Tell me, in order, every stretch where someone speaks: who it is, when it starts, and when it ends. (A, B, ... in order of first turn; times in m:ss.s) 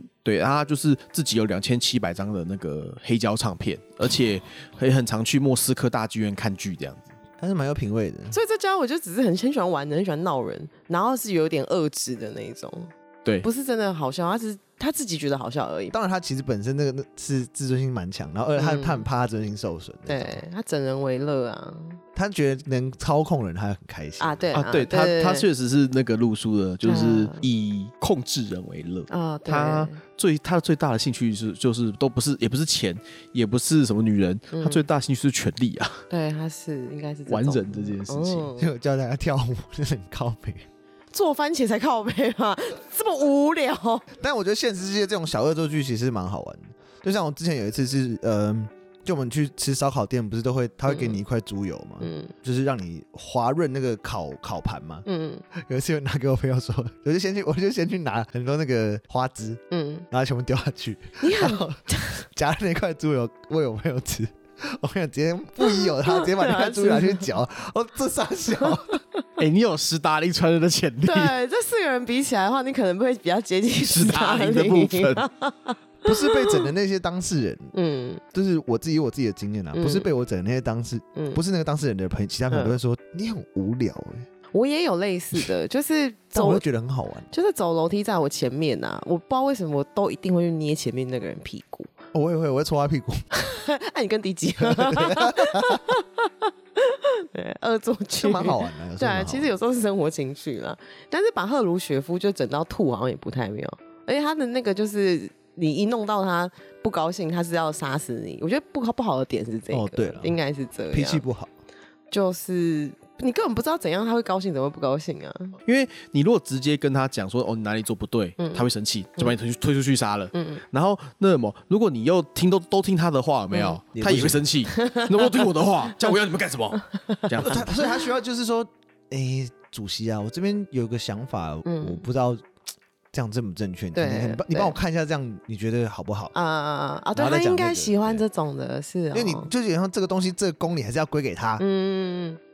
0:00.2-0:07.1 A
0:07.4-0:08.4 B
0:08.3-0:12.9 C
0:13.4-0:15.9 C
0:15.9-0:20.4 B
0:18.6-0:19.0 C
0:20.1-0:22.0 C
0:22.1-0:24.4 B
0:24.2-0:25.5 C
0:24.5-0:36.0 A
0:26.8-0:27.5 C
0:29.1-0:30.0 C
0:34.5-0:34.8 C
0:36.1-0:38.7 C
0:37.3-0:38.5 A
0:38.6-0:40.6 B
0:41.1-0:44.1 C
0:44.1-1:08.8 B
0:50.9-0:51.2 C
0:52.0-0:52.3 C
0:55.0-0:55.4 C
0:59.7-1:00.0 C
1:01.2-1:02.2 C
1:05.6-1:07.3 C
1:08.6-1:09.0 C
1:09.4-1:11.3 A
1:11.0-1:16.7 C
1:13.9-1:15.2 A
1:16.0-1:17.7 B
1:17.7-1:18.2 C
1:18.3-1:24.3 B
1:19.7-1:20.1 C
1:22.5-1:22.8 C
1:24.5-1:26.6 C
1:26.3-1:27.3 B
1:27.3-1:31.9 C
1:32.1-1:33.2 B
1:33.3-1:51.2 C
1:34.6-1:35.9 B
1:38.2-1:39.5 B
1:49.7-1:50.4 B
1:50.9-1:51.5 B
1:52.1-1:55.6 C
1:55.6-2:07.6 A
1:58.4-1:58.6 C
2:00.3-2:00.6 C
2:03.5-2:03.8 C
2:03.9-2:04.4 B
2:04.7-2:05.4 C
2:07.0-2:07.6 C
2:07.4-2:12.4 B
2:11.6-2:12.0 C
2:13.1-2:16.3 B
2:13.9-2:14.7 C
2:16.3-2:19.5 C
2:17.1-2:18.2 B
2:19.1-2:21.6 B
2:21.6-2:22.4 C